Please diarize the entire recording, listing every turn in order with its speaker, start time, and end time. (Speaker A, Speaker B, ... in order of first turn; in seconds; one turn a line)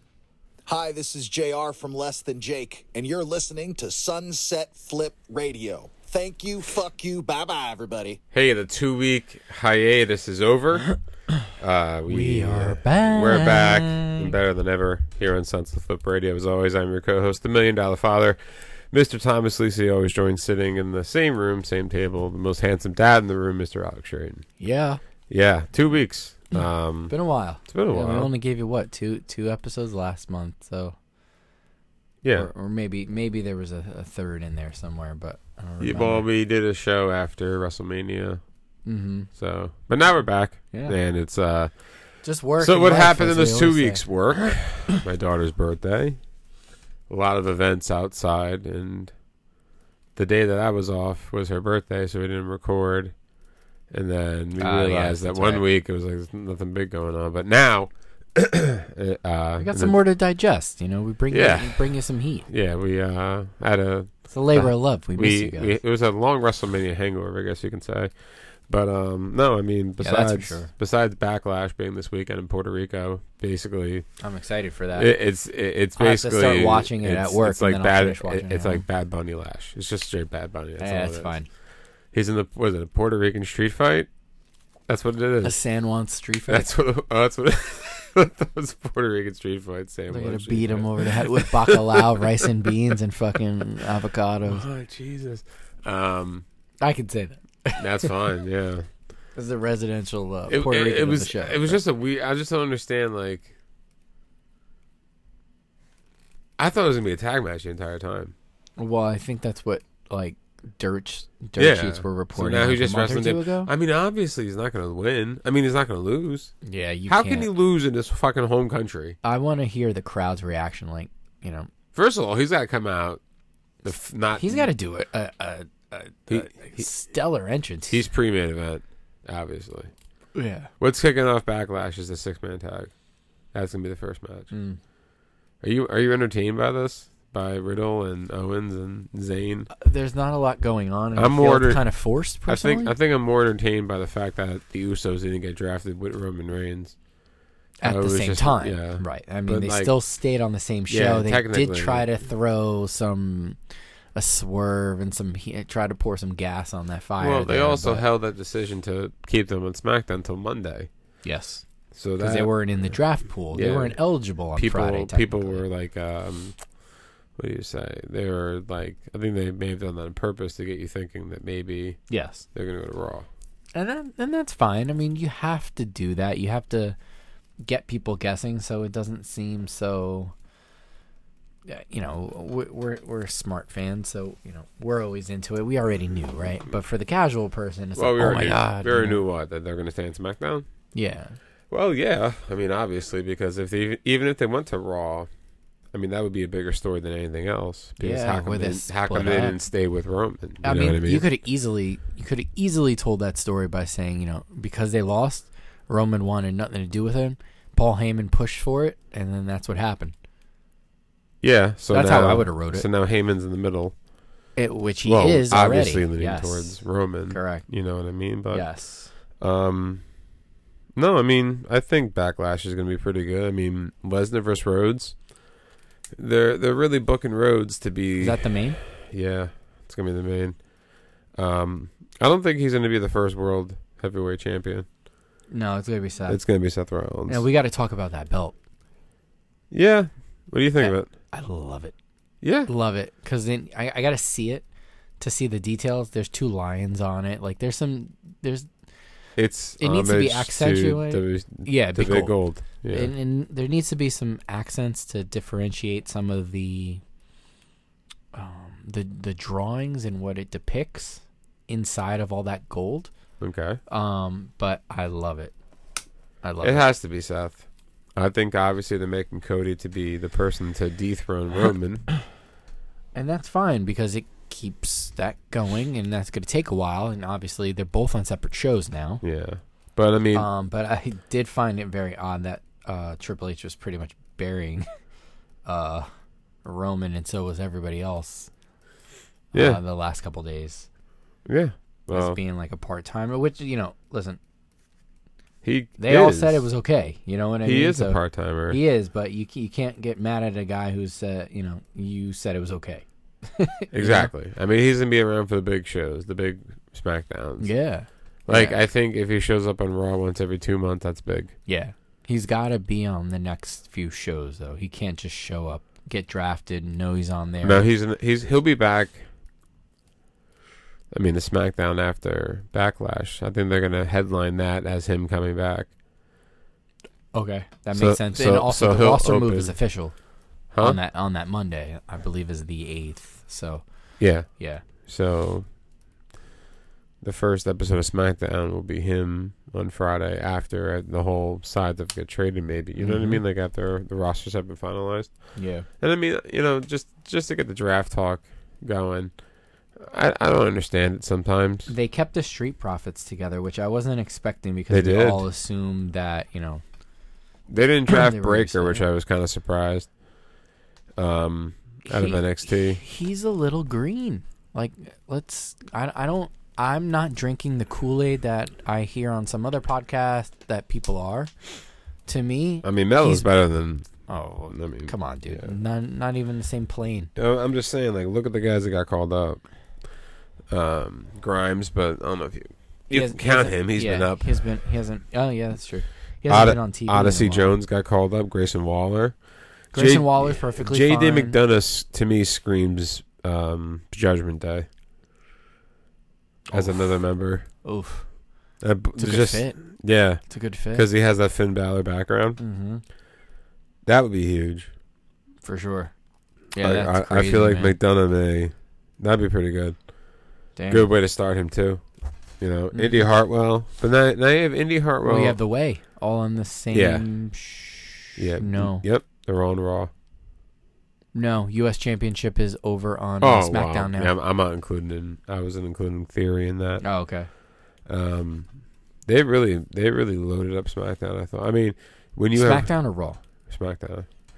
Speaker A: 0.7-8.2
Speaker B: 8.3-11.0
Speaker B: 11.6-24.5
Speaker C: 12.1-14.3
Speaker C: 24.6-25.0
Speaker B: 25.3-28.3
Speaker C: 27.1-31.0
Speaker B: 32.2-32.5
Speaker C: 32.3-36.2
Speaker B: 35.8-38.4
Speaker C: 38.9-39.3
Speaker B: 39.4-41.9
Speaker C: 42.2-44.6
Speaker B: 42.6-46.2
Speaker B: 47.1-49.1
Speaker B: 50.2-53.1
Speaker B: 53.9-60.0
Speaker C: 54.6-55.6
Speaker C: 59.6-62.5
Speaker B: 61.3-62.0
Speaker B: 62.5-74.1
Speaker C: 64.3-65.8
Speaker C: 70.0-70.7
Speaker C: 74.2-75.1
Speaker B: 75.0-81.4
Speaker C: 76.0-78.8
Speaker C: 80.8-81.5
Speaker B: 82.1-84.1
Speaker B: 84.9-85.6
Speaker C: 85.4-86.7
Speaker B: 86.5-92.0
Speaker C: 90.1-94.7
Speaker B: 94.5-96.4
Speaker C: 96.8-98.1
Speaker B: 97.8-98.9
Speaker C: 99.3-101.8
Speaker B: 100.5-103.5
Speaker B: 106.6-108.3
Speaker C: 108.8-113.7
Speaker B: 111.6-116.5
Speaker C: 116.6-117.5
Speaker B: 117.1-119.2
Speaker C: 119.2-121.7
Speaker B: 121.9-123.2
Speaker B: 123.8-124.7
Speaker C: 124.4-128.0
Speaker B: 126.3-126.9
Speaker B: 127.9-129.9
Speaker C: 130.3-130.7
Speaker B: 130.8-132.9
Speaker B: 133.5-134.5
Speaker C: 134.5-134.8
Speaker B: 135.6-139.7
Speaker C: 139.7-142.9
Speaker B: 141.2-147.0
Speaker C: 147.8-153.6
Speaker B: 147.8-149.9
Speaker B: 150.9-152.1
Speaker C: 154.2-158.1
Speaker B: 157.2-160.9
Speaker C: 161.2-165.7
Speaker B: 161.9-166.8
Speaker B: 167.3-172.0
Speaker C: 172.1-172.5
Speaker B: 172.5-173.3
Speaker C: 173.8-177.0
Speaker C: 177.6-180.3
Speaker C: 181.7-189.2
Speaker B: 188.0-190.7
Speaker C: 190.9-191.4
Speaker B: 191.7-195.3
Speaker B: 195.9-201.2
Speaker C: 198.0-199.6
Speaker C: 200.6-210.1
Speaker B: 211.4-214.0
Speaker C: 211.9-212.9
Speaker C: 214.6-217.7
Speaker B: 215.0-218.7
Speaker C: 218.5-219.1
Speaker B: 219.4-220.0
Speaker B: 220.9-225.2
Speaker B: 226.2-230.6
Speaker C: 228.2-228.8
Speaker B: 231.3-234.9
Speaker C: 235.5-236.4
Speaker B: 236.3-237.4
Speaker C: 237.3-238.6
Speaker B: 239.7-241.1
Speaker C: 240.8-241.9
Speaker B: 242.4-242.7
Speaker C: 242.7-244.7
Speaker C: 245.2-248.7
Speaker B: 249.4-253.1
Speaker C: 249.8-257.0
Speaker C: 258.3-263.1
Speaker B: 263.4-263.8
Speaker C: 263.9-265.5
Speaker C: 266.4-266.9
Speaker B: 266.6-267.6
Speaker B: 268.2-272.1
Speaker C: 273.1-279.2
Speaker B: 279.2-280.5
Speaker C: 280.3-284.9
Speaker C: 285.6-286.1
Speaker C: 286.6-288.5
Speaker C: 289.5-290.9
Speaker B: 289.5-289.8
Speaker B: 291.5-292.4
Speaker C: 292.1-294.4
Speaker B: 295.6-296.7
Speaker C: 296.0-304.3
Speaker B: 297.6-298.8
Speaker B: 303.9-307.8
Speaker C: 307.6-308.8
Speaker B: 308.5-311.6
Speaker C: 311.7-317.9
Speaker B: 317.6-319.3
Speaker B: 321.1-325.9
Speaker C: 327.3-334.9
Speaker B: 327.9-329.8
Speaker B: 330.7-331.0
Speaker B: 334.2-335.7
Speaker B: 337.2-349.3
Speaker C: 343.0-343.4
Speaker C: 345.6-345.9
Speaker B: 349.9-351.9
Speaker C: 351.9-356.8
Speaker B: 354.9-355.4
Speaker B: 357.7-360.1
Speaker C: 358.1-359.1
Speaker B: 361.2-363.0
Speaker C: 362.1-371.5
Speaker C: 372.3-373.5
Speaker B: 372.8-375.7
Speaker C: 374.3-377.3
Speaker B: 377.4-379.6
Speaker B: 380.7-384.8
Speaker C: 383.1-387.7
Speaker B: 386.5-394.9
Speaker C: 389.9-391.6
Speaker C: 396.7-398.3
Speaker B: 396.7-397.7
Speaker B: 398.8-402.6
Speaker C: 399.1-401.1
Speaker C: 402.6-403.0
Speaker B: 404.1-404.9
Speaker C: 405.6-406.1
Speaker C: 406.7-408.0
Speaker B: 406.8-410.1
Speaker C: 410.8-411.2
Speaker B: 410.9-412.1
Speaker B: 412.6-415.6
Speaker C: 412.9-413.3
Speaker C: 415.2-419.1
Speaker B: 416.9-417.2
Speaker B: 418.4-420.1
Speaker C: 421.3-424.3
Speaker B: 423.4-427.1
Speaker C: 427.0-427.5
Speaker B: 428.1-428.7
Speaker B: 429.2-432.9
Speaker C: 432.5-433.4
Speaker B: 433.7-434.3